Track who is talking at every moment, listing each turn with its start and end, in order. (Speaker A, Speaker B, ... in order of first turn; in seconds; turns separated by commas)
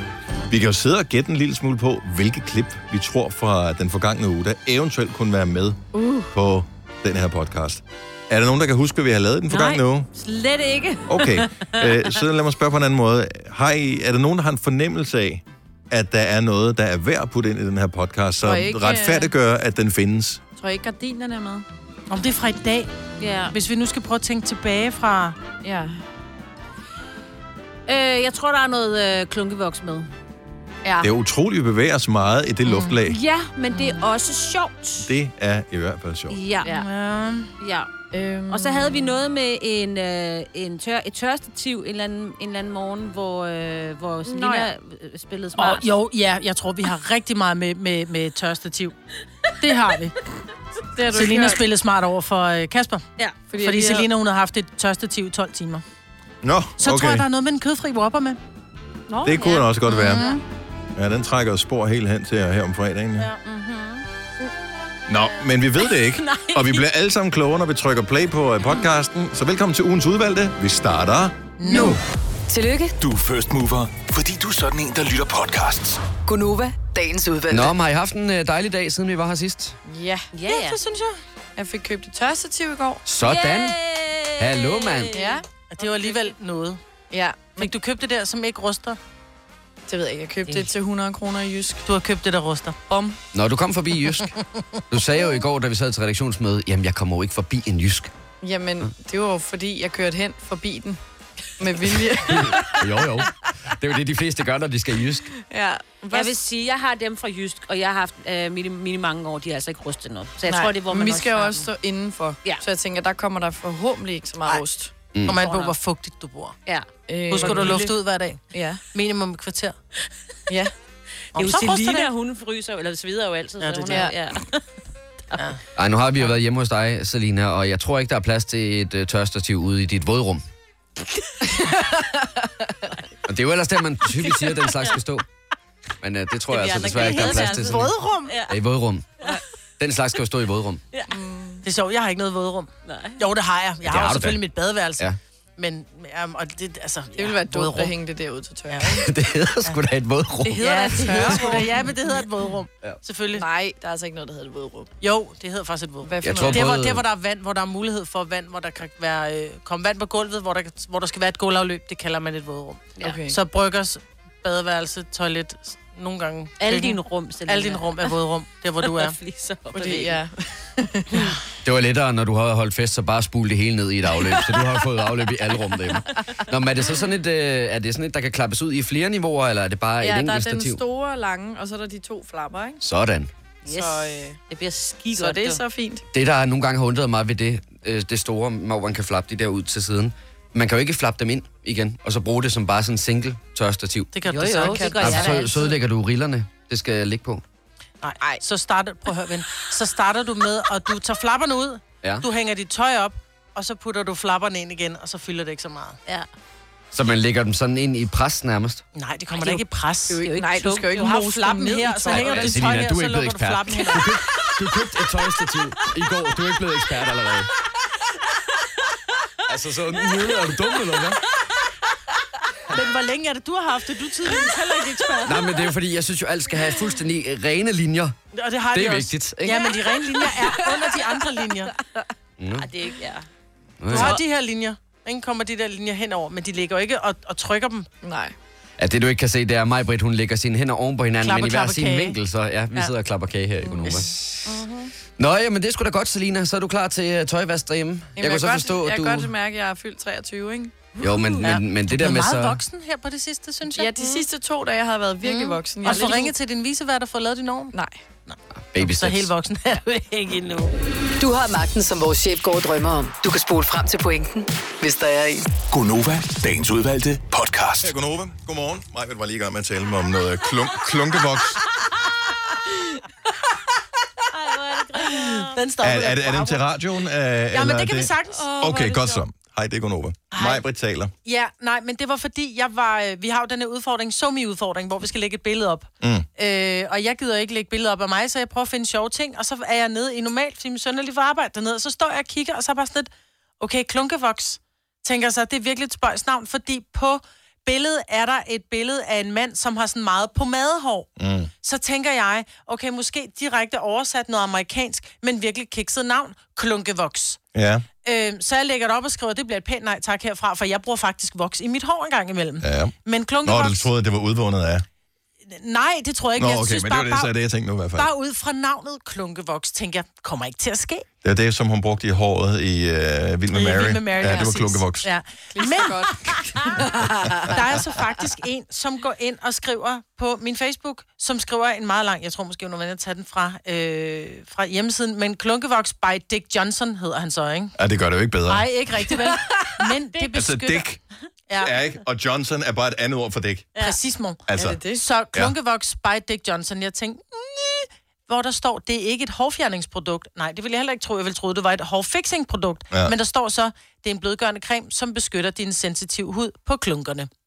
Speaker A: 0.5-5.8, Speaker B: 5.9-6.3, Speaker A: 6.3-10.1, Speaker C: 9.5-11.9, Speaker A: 11.1-20.4, Speaker B: 18.4-19.3, Speaker B: 20.6-21.6, Speaker D: 22.1-25.4, Speaker C: 23.2-23.5, Speaker B: 25.6-26.0, Speaker C: 27.9-30.1, Speaker A: 31.0-33.2, Speaker C: 32.8-35.1, Speaker A: 35.0-36.4, Speaker C: 36.3-36.9, Speaker D: 36.8-37.5, Speaker C: 37.6-37.9, Speaker B: 38.1-39.1, Speaker C: 38.5-45.9, Speaker B: 44.2-44.7, Speaker D: 45.6-48.9, Speaker D: 49.6-50.1, Speaker B: 50.9-51.6, Speaker D: 51.1-53.0, Speaker B: 53.5-54.1, Speaker D: 53.6-55.8, Speaker A: 56.4-57.2, Speaker D: 56.8-58.4, Speaker C: 59.1-60.4, Speaker A: 59.2-60.2, Speaker B: 60.1-60.3, Speaker A: 60.9-63.3, Speaker C: 63.4-64.0, Speaker A: 65.1-71.4, Speaker C: 66.2-66.8, Speaker D: 71.6-72.0, Speaker E: 72.5-73.0, Speaker F: 73.0-76.0, Speaker E: 76.2-77.7, Speaker G: 77.5-79.8, Speaker B: 79.8-80.3, Speaker C: 80.3-80.8, Speaker D: 80.5-81.2, Speaker B: 81.5-83.0, Speaker G: 83.0-83.8, Speaker C: 83.2-86.3, Speaker G: 84.4-85.1, Speaker B: 85.1-85.4, Speaker D: 85.7-86.8, Speaker B: 87.1-87.7, Speaker D: 87.5-89.0, Speaker B: 89.9-91.8, Speaker D: 91.8-92.8, Speaker B: 92.9-93.2, Speaker G: 93.3-94.3, Speaker G: 94.9-98.1, Speaker B: 98.4-101.0, Speaker B: 101.6-102.8, Speaker G: 102.3-105.3, Speaker B: 105.5-106.4, Speaker C: 106.1-111.7, Speaker B: 110.5-114.9, Speaker G: 115.1-115.4, Speaker D: 115.2-116.6, Speaker C: 115.3-115.7, Speaker C: 116.7-117.9, Speaker B: 117.1-117.9, Speaker D: 117.3-118.4, Speaker B: 118.5-118.8, Speaker D: 118.9-119.8, Speaker C: 121.3-124.6, Speaker D: 121.3-122.1, Speaker D: 123.6-124.1, Speaker B: 123.9-124.2, Speaker G: 125.8-130.4, Speaker B: 131.4-132.9, Speaker G: 133.3-135.2, Speaker G: 136.0-137.9, Speaker C: 136.5-138.5, Speaker D: 136.8-138.4, Speaker G: 138.5-139.1, Speaker G: 139.8-140.8, Speaker B: 141.1-141.6, Speaker D: 141.6-145.0, Speaker C: 142.8-143.2, Speaker G: 143.8-144.4, Speaker D: 145.6-147.9, Speaker B: 147.2-149.1, Speaker D: 148.7-149.0, Speaker G: 148.9-150.6, Speaker B: 150.4-151.9, Speaker D: 150.5-153.4, Speaker C: 150.6-151.6, Speaker B: 153.3-154.9, Speaker D: 155.0-169.2, Speaker B: 156.0-156.7, Speaker G: 156.2-157.0, Speaker B: 163.0-163.3, Speaker C: 166.6-168.1, Speaker C: 168.8-170.2, Speaker B: 169.7-171.3, Speaker G: 171.6-180.8, Speaker B: 180.0-182.8, Speaker G: 182.8-183.3, Speaker C: 183.6-185.6, Speaker B: 183.7-184.4, Speaker B: 185.1-186.0, Speaker G: 186.1-194.1, Speaker D: 194.1-195.7, Speaker C: 194.2-195.7, Speaker B: 194.6-195.4, Speaker G: 195.0-197.4, Speaker D: 198.0-206.0, Speaker G: 206.9-208.8, Speaker D: 208.9-210.3, Speaker B: 210.1-212.6, Speaker C: 210.2-211.0, Speaker D: 210.9-214.2, Speaker G: 212.1-217.5, Speaker G: 219.5-221.2, Speaker D: 222.7-225.6, Speaker G: 225.2-228.1, Speaker D: 228.3-231.7, Speaker G: 228.7-229.6, Speaker B: 229.5-231.1, Speaker G: 232.4-232.7, Speaker C: 232.6-233.2, Speaker G: 233.8-234.2, Speaker D: 233.9-237.9, Speaker C: 233.9-234.2, Speaker B: 238.0-238.3, Speaker G: 238.8-244.4, Speaker D: 241.2-242.2, Speaker B: 243.6-244.1, Speaker D: 243.8-244.1, Speaker G: 245.2-249.3, Speaker B: 248.2-251.5, Speaker G: 251.0-252.6, Speaker D: 251.4-254.2, Speaker B: 253.7-256.3, Speaker D: 255.3-257.7, Speaker B: 257.7-258.0, Speaker D: 258.3-260.7, Speaker G: 258.7-259.3, Speaker E: 261.2-265.5, Speaker F: 265.6-267.9, Speaker A: 267.8-271.6, Speaker C: 274.3-275.6, Speaker D: 275.5-276.6, Speaker A: 275.8-281.1, Speaker D: 277.5-278.6, Speaker C: 278.4-279.2, Speaker D: 280.3-280.6, Speaker D: 281.2-301.1, Speaker A: 286.0-286.3, Speaker A: 301.2-301.5, Speaker D: 301.6-307.4, Speaker A: 307.5-307.9, Speaker D: 308.0-313.9, Speaker A: 312.6-314.9, Speaker D: 315.4-317.3, Speaker A: 316.4-318.1, Speaker D: 317.9-321.1, Speaker A: 321.2-325.1, Speaker D: 323.5-337.7, Speaker B: 324.2-324.6, Speaker B: 325.5-327.5, Speaker A: 337.8-338.7, Speaker D: 338.5-340.9, Speaker B: 339.3-339.6, Speaker A: 340.3-341.0, Speaker D: 341.5-341.8, Speaker A: 341.6-343.7, Speaker D: 343.8-357.3, Speaker A: 344.5-344.8, Speaker B: 344.6-345.0